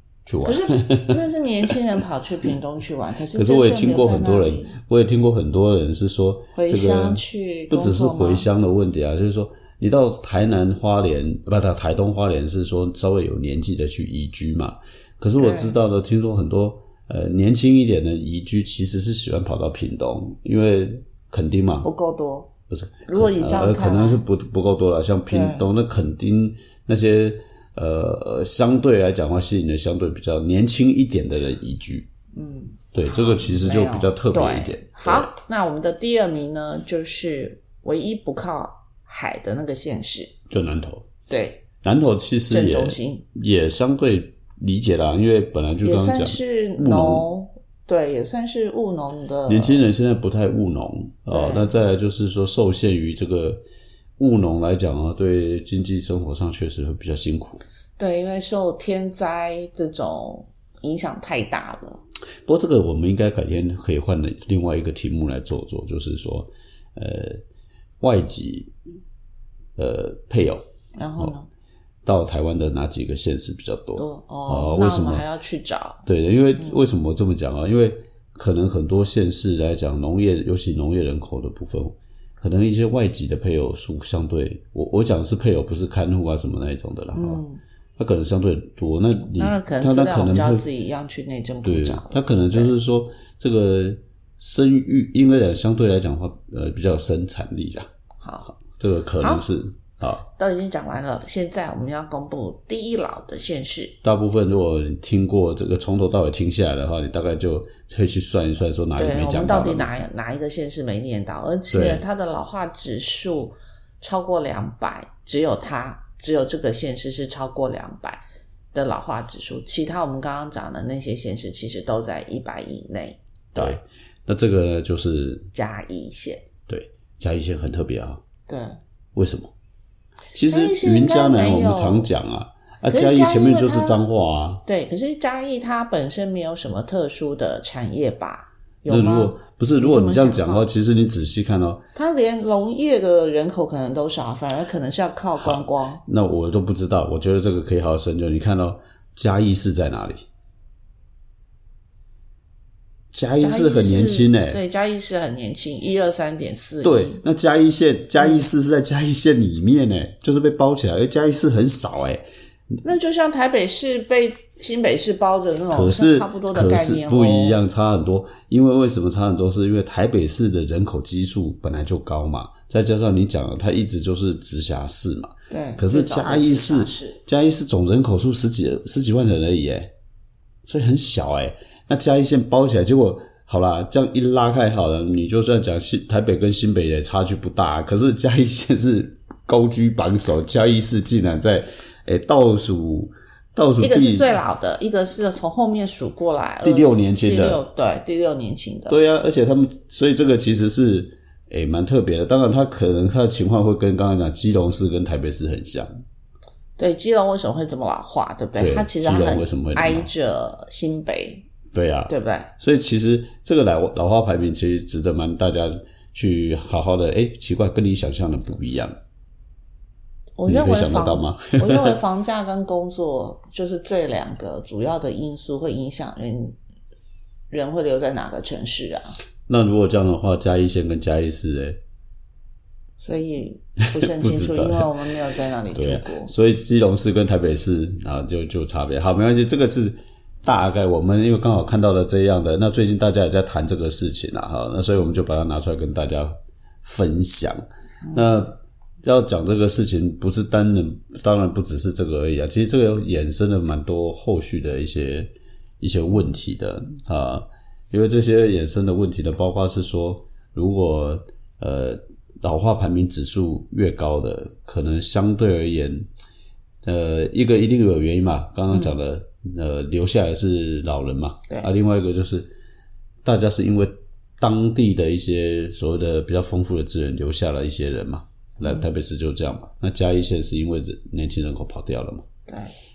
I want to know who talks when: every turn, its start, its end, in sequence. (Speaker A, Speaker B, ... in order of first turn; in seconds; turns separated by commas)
Speaker A: 0.3-1.2, Speaker B: 0.4-4.8, Speaker A: 3.3-21.9, Speaker B: 6.5-8.5, Speaker B: 15.4-15.8, Speaker B: 21.8-22.5, Speaker A: 22.7-32.1, Speaker B: 23.1-24.2, Speaker B: 25.3-25.7, Speaker B: 32.3-40.3, Speaker A: 32.9-35.3, Speaker A: 40.5-41.1, Speaker B: 41.3-41.7, Speaker A: 41.8-47.3, Speaker B: 42.5-43.2, Speaker B: 45.8-49.9, Speaker A: 49.5-53.6, Speaker B: 51.3-51.7, Speaker A: 54.2-57.6, Speaker B: 58.0-62.0, Speaker A: 62.5-67.4, Speaker A: 68.0-68.7, Speaker A: 69.8-70.6, Speaker B: 71.0-71.5, Speaker A: 72.0-75.2, Speaker B: 74.0-76.0, Speaker A: 76.1-87.4, Speaker B: 76.6-76.9, Speaker B: 87.1-87.6, Speaker A: 88.0-90.7, Speaker B: 89.3-92.7, Speaker A: 91.6-97.9, Speaker B: 98.2-98.5, Speaker A: 98.5-100.2, Speaker B: 100.2-104.0, Speaker A: 104.0-109.9, Speaker B: 109.0-118.2, Speaker A: 111.7-112.0, Speaker B: 118.7-123.8, Speaker A: 123.6-125.5, Speaker B: 125.5-126.5, Speaker A: 126.7-128.2, Speaker B: 128.5-128.8, Speaker A: 129.2-129.5, Speaker A: 130.3-134.6, Speaker B: 130.4-132.1, Speaker B: 132.8-134.0, Speaker B: 134.7-140.7, Speaker A: 138.9-141.8, Speaker B: 141.9-146.0, Speaker A: 145.4-150.3, Speaker A: 153.1-154.6, Speaker B: 153.4-157.2, Speaker A: 156.8-162.2, Speaker B: 162.8-167.6, Speaker A: 165.7-179.9, Speaker B: 175.5-177.2, Speaker A: 180.7-194.4, Speaker B: 193.8-199.0, Speaker A: 196.6-197.6, Speaker A: 198.9-205.9, Speaker B: 206.8-211.5, Speaker A: 208.6-210.1, Speaker A: 211.7-219.0, Speaker B: 212.1-212.5, Speaker B: 220.4-226.6, Speaker A: 220.5-222.0, Speaker B: 227.5-229.2, Speaker A: 229.5-231.8, Speaker B: 233.0-236.3, Speaker A: 233.9-234.9, Speaker A: 235.7-266.1, Speaker B: 248.0-248.3, Speaker A: 266.8-272.5, Speaker A: 273.2-282.3, Speaker B: 282.5-282.7